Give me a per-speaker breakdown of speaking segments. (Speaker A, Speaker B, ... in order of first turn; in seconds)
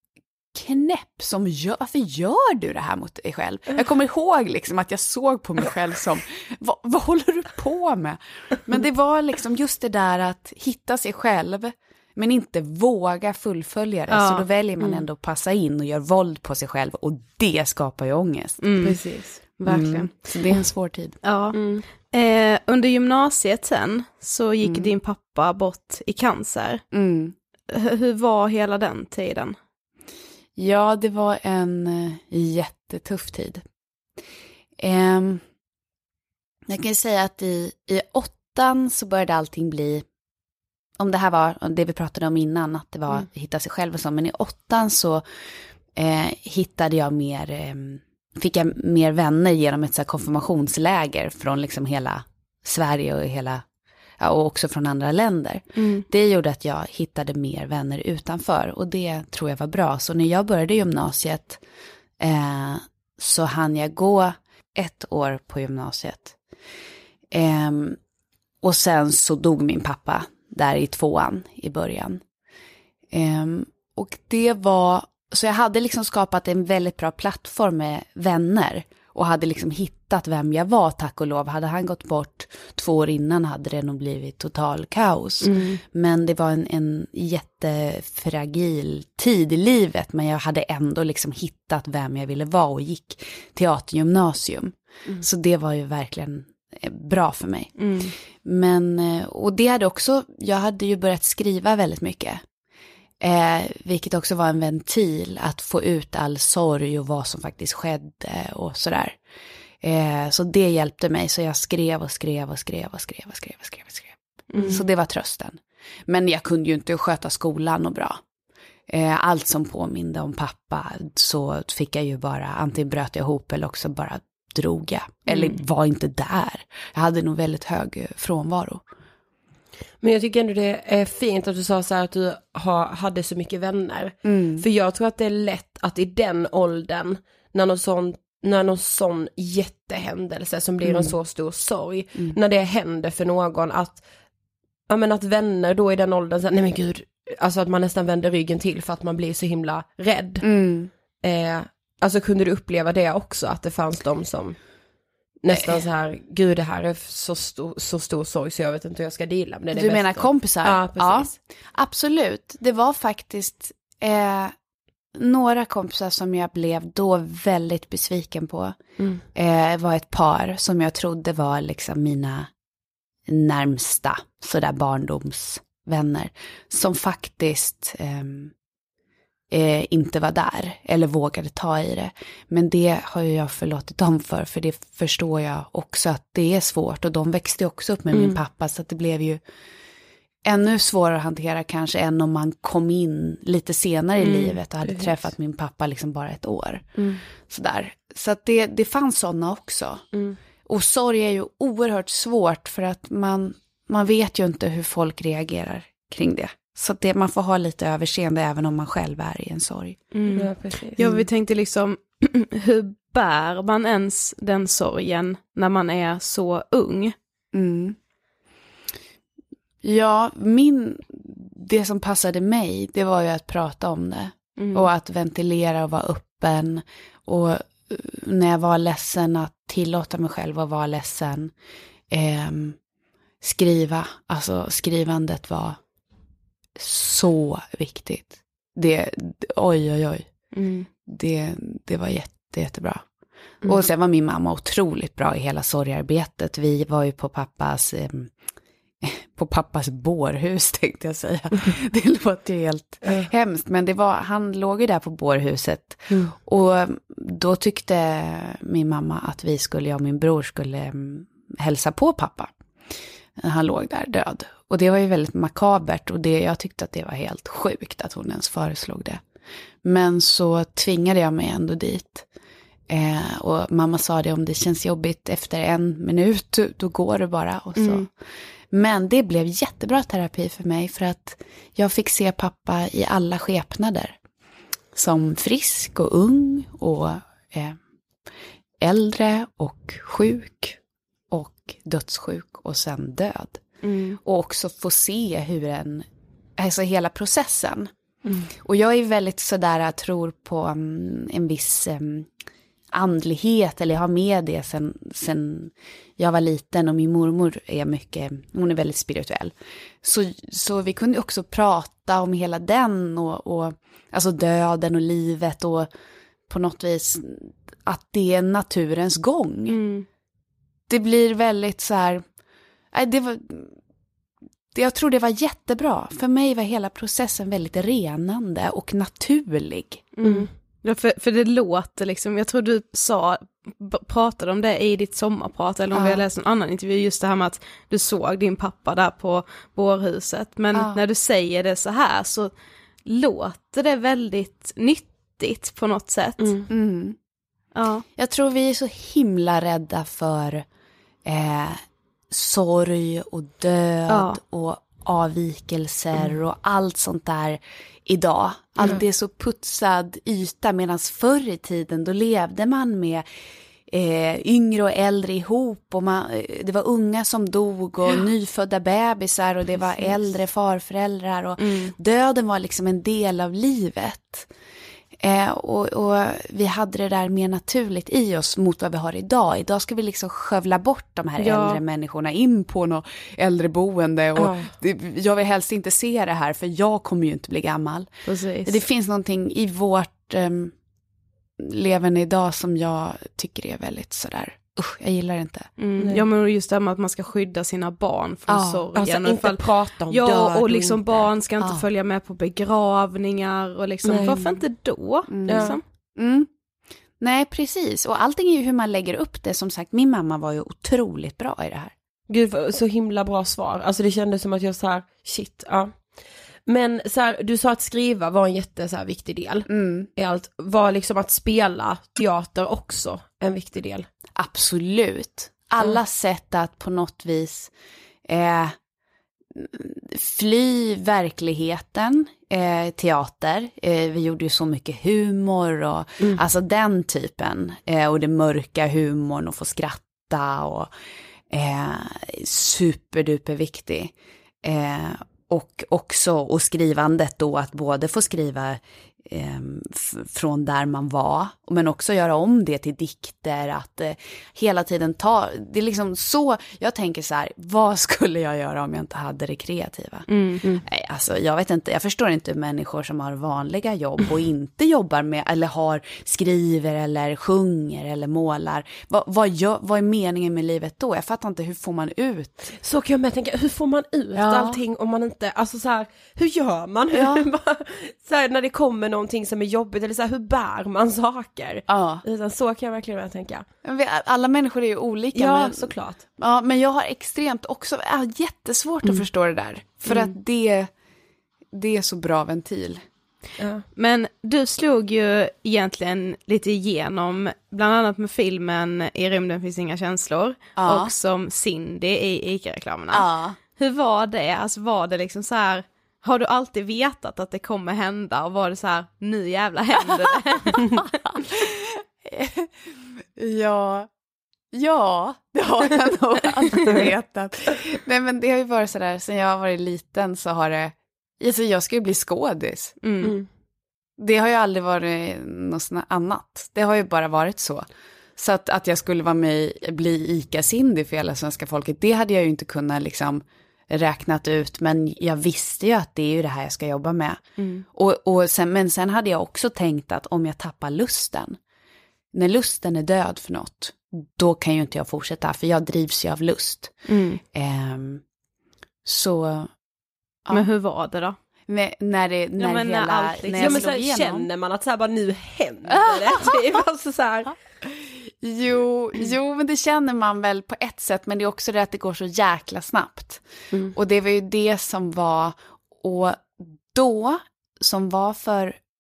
Speaker A: 0.5-18.6, 19.6-21.2, 24.6-24.9, 26.9-27.3, 30.6-33.6, 34.8-35.4, 36.7-40.0, 41.0-45.2, 46.0-53.6, 54.2-61.6, 62.2-66.4, 67.3-68.0, 68.6-72.2, 73.1-97.7, 98.4-102.4, 103.2-109.2, 109.8-118.2, 118.9-128.8, 134.2-134.6, 140.8-141.1, 150.4-150.9, 155.5-155.8, 159.7-164.5, 165.1-168.8, 169.3-172.5, 173.3-178.5, 179.5-189.4, 190.4-200.0, 200.7-210.0, 217.5-218.0, 219.8-231.5, 232.1-232.8, 233.4-235.8, 236.8-240.3, 241.1-243.0, 243.6-248.3, 249.0-262.5, 263.4-269.2, 269.8-272.3, 272.9-278.1, 278.7-284.2, 284.9-287.8, 288.8-290.8, 291.3-293.6, 294.2-297.9, 298.6-302.3, 302.9-315.9, 316.5-319.8, 320.9-322.2, 322.9-323.8, 324.7-330.0, 335.9-336.2, 340.7-341.0, 346.7-347.2, 348.1-350.6, 351.2-363.2, 363.9-374.5, 375.2-388.1, 388.6-390.7, 391.6-395.7, 398.5-398.9, 401.6-401.8, 405.3-406.5, 407.2-411.9, 419.7-420.1, 424.4-427.7, 428.3-428.8, 429.5-440.9, 441.5-460.3, 460.8-472.7, 474.3-474.8, 477.1-477.5, 481.9-482.2, 483.8-490.9, 491.7-493.0, 500.8-501.1, 503.1-503.6, 510.7-514.1, 514.7-523.0, 524.2-527.9, 528.4-541.6, 542.3-547.0, 547.5-548.2, 549.0-549.7, 551.7-554.5, 556.2-556.5, 557.9-568.8
Speaker B: 14.1-14.4, 18.6-20.2, 21.2-26.8, 27.7-29.6, 55.8-56.0, 97.8-98.1, 114.5-114.8, 125.3-125.5, 210.1-217.1, 224.6-224.9, 240.5-240.9, 277.8-278.1, 293.8-294.2, 319.7-320.1, 330.1-342.5, 343.1-346.6, 347.7-348.1, 354.1-354.4, 371.6-371.9, 381.4-381.8, 388.2-388.8, 395.8-405.8, 460.3-460.6, 493.9-511.1, 523.0-523.3, 537.6-537.8, 547.0-547.4, 550.5-551.4, 552.6-553.9
Speaker C: 18.8-19.4, 21.5-21.9, 85.4-85.8, 130.0-144.0, 144.9-150.5, 151.2-154.6, 155.4-161.3, 169.0-169.2, 194.2-195.2, 197.0-197.2, 200.1-200.4, 210.3-211.0, 253.0-253.3, 298.2-298.5, 346.4-346.7, 384.4-384.7, 396.0-396.2, 398.9-401.3, 404.0-404.6, 405.4-405.8, 412.3-416.1, 416.6-424.1, 472.8-483.6, 485.3-486.2, 493.6-493.8, 516.7-517.0, 553.5-557.5, 563.7-564.0